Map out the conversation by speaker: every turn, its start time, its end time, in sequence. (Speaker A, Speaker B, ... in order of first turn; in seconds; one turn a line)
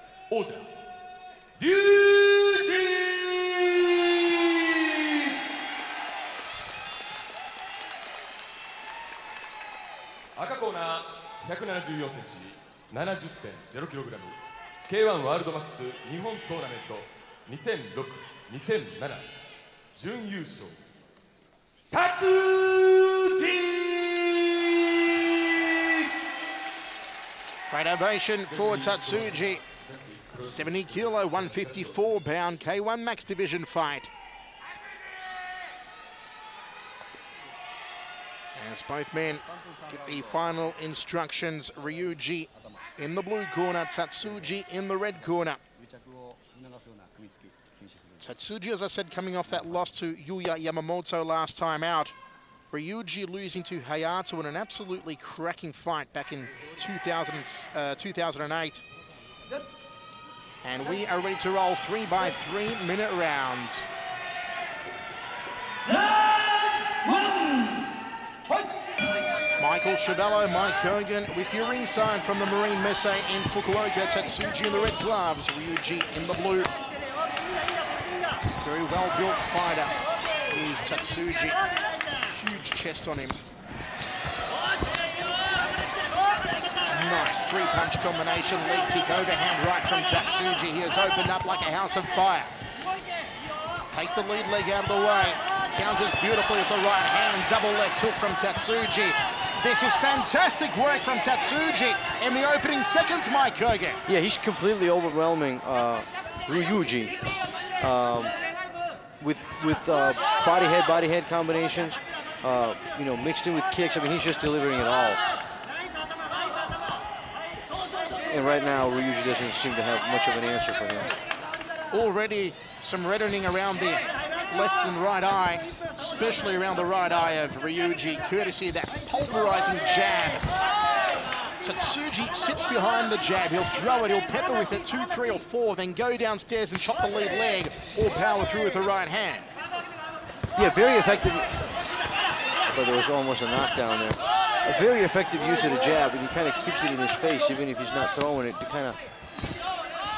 Speaker A: 0.3-0.7
Speaker A: 1.6-5.4
Speaker A: 10.4-19.3
Speaker A: 20.0-20.8
Speaker A: 21.9-26.1
Speaker B: 27.7-29.6
Speaker A: 28.5-32.0
Speaker B: 30.4-34.1
Speaker B: 38.6-45.6
Speaker B: 48.2-52.1
Speaker B: 52.7-58.8
Speaker B: 60.6-63.9
Speaker B: 69.6-76.7
Speaker B: 78.6-80.0
Speaker B: 80.5-81.6
Speaker B: 82.3-83.4
Speaker B: 86.9-92.5
Speaker B: 93.9-104.0
Speaker C: 104.1-107.1
Speaker C: 107.8-108.3
Speaker C: 109.2-115.2
Speaker C: 118.3-121.1
Speaker B: 121.9-130.6
Speaker B: 131.6-139.5
Speaker C: 140.6-141.5
Speaker C: 142.7-149.0